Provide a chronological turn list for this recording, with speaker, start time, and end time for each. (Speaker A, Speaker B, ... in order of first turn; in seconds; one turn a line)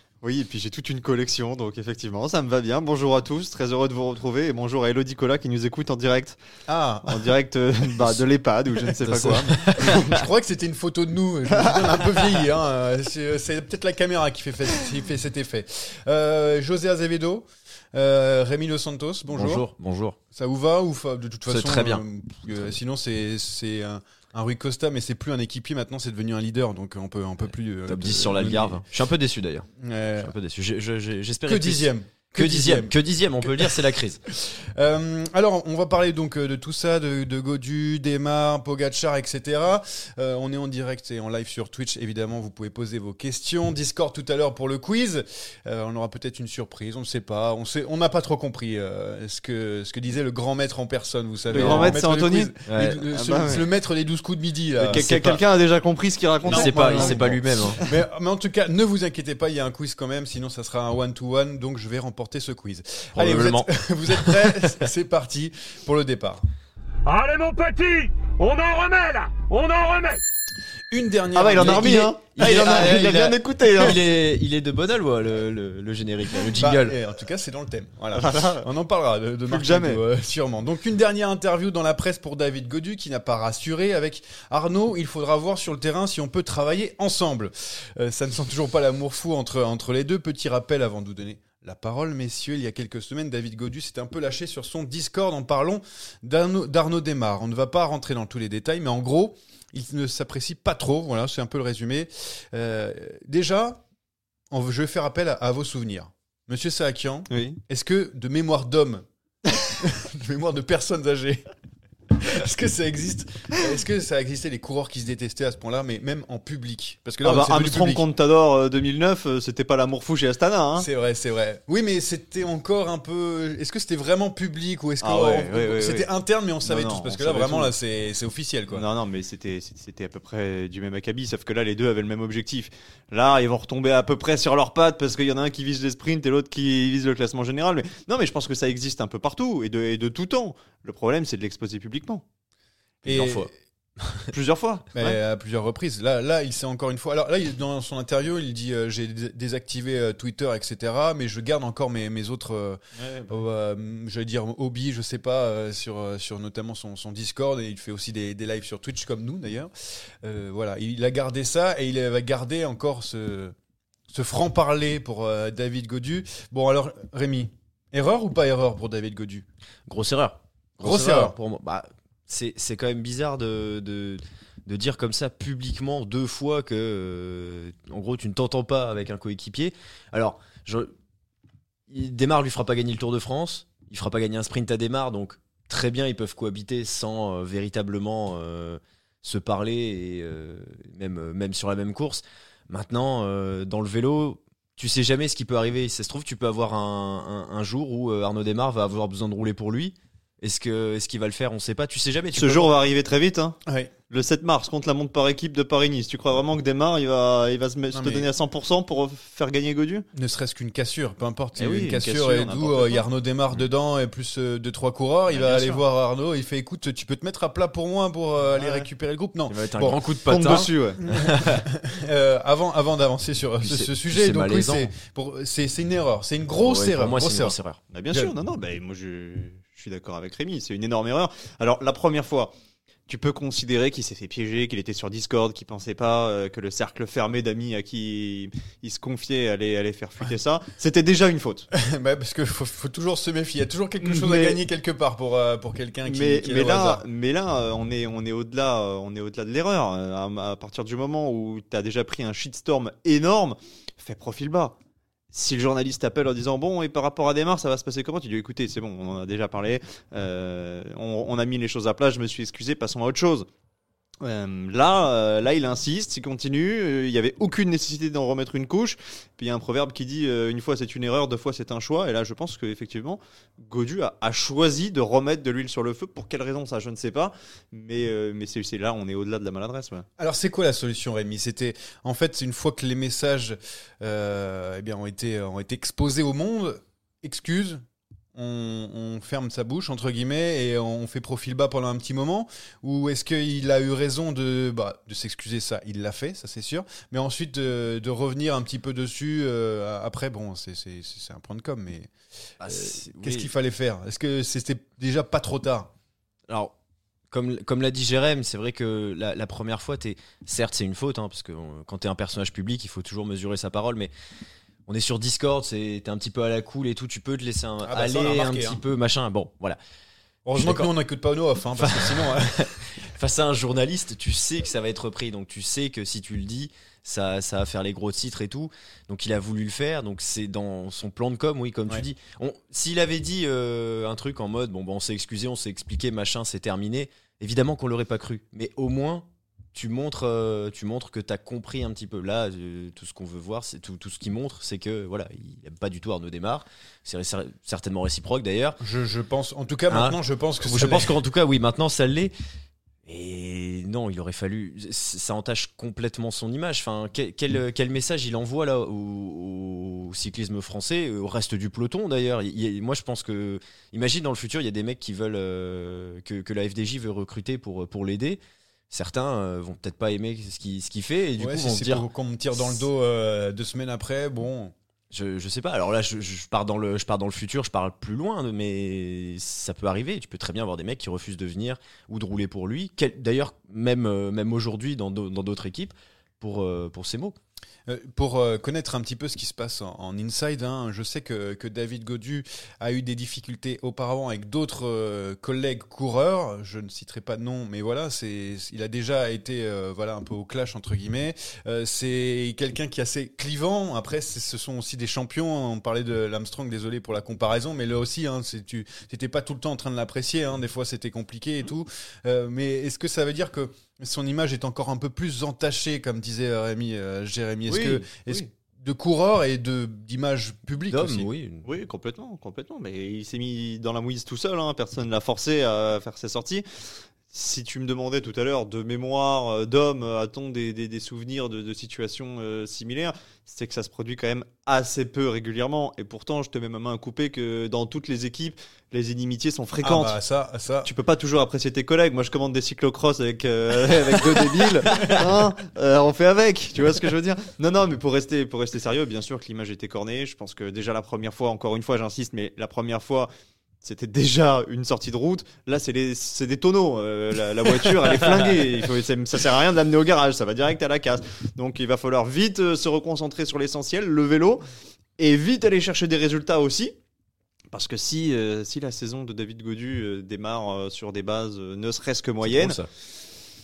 Speaker A: 0.2-6.4
Speaker B: 6.7-7.3
Speaker A: 7.0-10.2
Speaker C: 9.0-10.0
Speaker B: 9.8-19.6
Speaker A: 11.5-12.3
Speaker C: 19.3-20.2
Speaker B: 20.3-28.8
Speaker C: 21.5-22.7
Speaker C: 27.9-29.7
Speaker B: 29.8-30.3
Speaker C: 30.2-34.2
Speaker B: 31.4-33.7
Speaker B: 34.3-55.4
Speaker A: 51.5-52.5
Speaker C: 51.5-52.0
Speaker C: 52.7-53.0
Speaker A: 53.1-53.7
Speaker A: 54.8-57.9
Speaker B: 56.5-66.4
Speaker C: 56.5-57.8
Speaker C: 63.2-64.8
Speaker D: 67.1-70.2
Speaker B: 70.9-73.3
Speaker A: 71.3-74.0
Speaker C: 71.6-77.0
Speaker B: 76.6-103.8
Speaker A: 78.1-78.7
Speaker A: 79.5-80.0
Speaker B: 104.5-109.0
Speaker A: 107.3-107.6
Speaker B: 109.6-111.4
Speaker B: 112.2-118.0
Speaker A: 117.2-120.9
Speaker B: 120.8-128.8
Speaker A: 125.0-126.1
Speaker A: 126.6-127.7
Speaker A: 128.7-142.2
Speaker B: 143.0-143.5
Speaker C: 143.0-144.3
Speaker A: 144.3-145.2
Speaker B: 144.9-159.7
Speaker B: 160.2-163.5
Speaker B: 164.1-169.4
Speaker C: 169.9-180.9
Speaker B: 170.8-171.3
Speaker C: 181.9-202.7
Speaker A: 202.3-203.6
Speaker A: 204.1-210.1
Speaker B: 207.9-208.3
Speaker B: 210.1-227.6
Speaker A: 211.6-213.0
Speaker A: 215.3-215.8
Speaker A: 218.5-218.9
Speaker C: 219.5-221.6
Speaker A: 220.3-221.0
Speaker C: 223.6-224.9
Speaker C: 226.6-227.8
Speaker A: 227.9-232.5
Speaker A: 233.1-241.7
Speaker B: 241.7-247.0
Speaker A: 244.0-244.6
Speaker A: 246.0-254.8
Speaker A: 255.3-263.5
Speaker A: 264.2-280.1
Speaker B: 280.2-287.8
Speaker B: 288.3-302.1
Speaker C: 302.6-303.5
Speaker B: 302.6-305.9
Speaker C: 306.5-306.7
Speaker C: 307.3-314.1
Speaker C: 314.9-319.8
Speaker B: 317.9-318.8
Speaker B: 320.4-322.7
Speaker C: 320.6-320.9
Speaker C: 321.8-348.8
Speaker B: 348.8-351.1
Speaker C: 349.9-352.3
Speaker C: 353.1-368.4
Speaker C: 368.9-372.1
Speaker B: 371.4-374.7
Speaker C: 375.1-387.4
Speaker B: 387.9-421.3
Speaker A: 417.7-418.5
Speaker C: 420.9-421.6
Speaker A: 421.6-426.6
Speaker A: 427.3-440.2
Speaker B: 439.8-440.9
Speaker A: 440.8-453.3
Speaker A: 453.8-464.6
Speaker A: 465.2-466.9
Speaker A: 467.7-472.8
Speaker C: 472.4-472.9